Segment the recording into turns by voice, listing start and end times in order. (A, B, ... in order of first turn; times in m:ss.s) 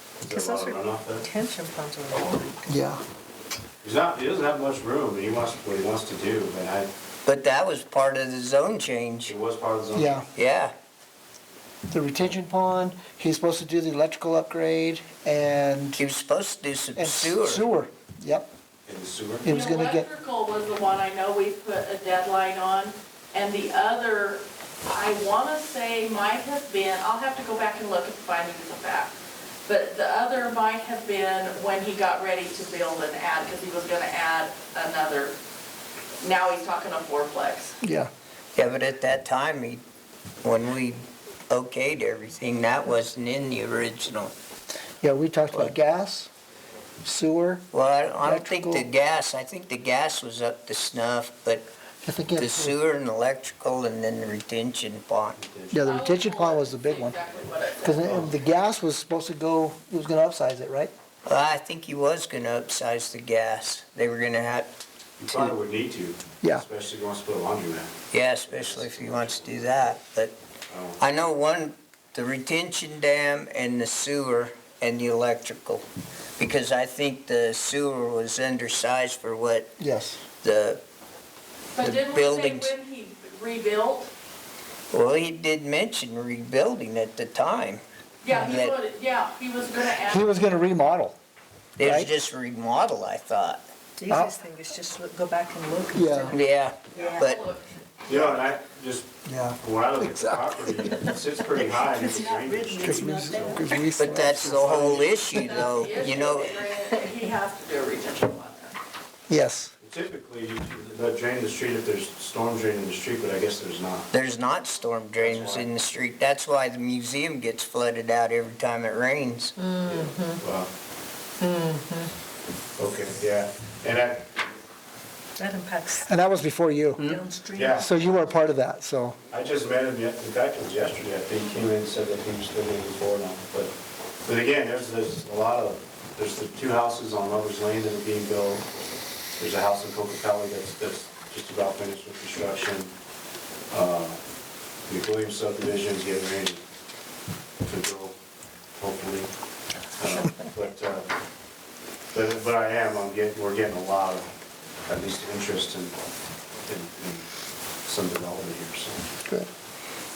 0:00.2-0:01.2 A
0:00.2-0:02.7 B
0:02.7-0:03.0 C
0:03.8-0:06.9 A
0:07.3-0:09.4 D
0:09.3-0:10.3 A
0:09.9-0:10.3 C
0:10.3-0:10.7 D
0:11.9-0:16.0 C
0:16.0-0:17.7 D
0:17.0-0:18.5 C
0:18.9-0:19.5 A
0:19.4-0:20.1 C
0:19.5-0:29.1 E
0:29.7-0:35.4 E
0:36.2-0:37.8 E
0:37.8-0:38.1 C
0:38.6-0:39.8 D
0:40.4-0:44.3 D
0:45.0-0:46.3 C
0:47.0-0:47.7 C
0:47.7-0:51.6 D
0:48.2-0:48.9 C
0:52.0-0:52.8 C
0:52.4-0:55.4 D
0:55.4-0:55.8 A
0:55.7-0:57.2 C
0:55.8-0:58.1 E
0:57.8-1:00.9 C
0:58.0-0:58.4 A
1:01.2-1:04.7 D
1:05.2-1:10.0 A
1:05.3-1:05.6 D
1:08.1-1:10.4 D
1:10.7-1:11.0 A
1:11.0-1:15.8 D
1:16.4-1:20.8 D
1:19.8-1:20.2 C
1:21.8-1:24.1 E
1:21.8-1:22.8 D
1:24.9-1:27.8 D
1:28.2-1:30.4 E
1:28.4-1:28.8 D
1:30.0-1:31.2 C
1:31.8-1:33.6 D
1:31.8-1:32.1 C
1:34.0-1:37.4 B
1:34.1-1:34.3 C
1:35.9-1:36.4 C
1:36.3-1:37.4 D
1:36.9-1:38.3 E
1:38.1-1:43.5 A
1:39.3-1:40.9 C
1:40.9-1:43.9 B
1:42.8-1:45.7 C
1:44.0-1:46.6 D
1:44.6-1:45.3 A
1:45.4-1:48.8 E
1:49.3-1:49.7 C
1:49.8-1:54.1 A
1:54.1-1:59.6 D
1:55.2-1:55.7 A
1:59.6-2:00.4 B
1:59.8-2:00.7 A
2:01.4-2:02.1 B
2:02.8-2:04.3 A
2:05.4-2:06.1 B
2:06.0-2:07.2 C
2:07.0-2:08.3 B
2:07.6-2:08.0 A
2:07.8-2:09.2 C
2:09.3-2:18.7 A
2:19.4-2:22.9 A
2:23.7-2:24.2 A
2:24.9-2:26.6 A
2:27.6-2:28.1 A
2:28.8-2:29.3 A
2:30.0-2:31.1 A
2:32.1-2:34.3 A
2:34.9-2:36.0 A
2:36.7-2:37.3 A
2:37.8-2:39.1 A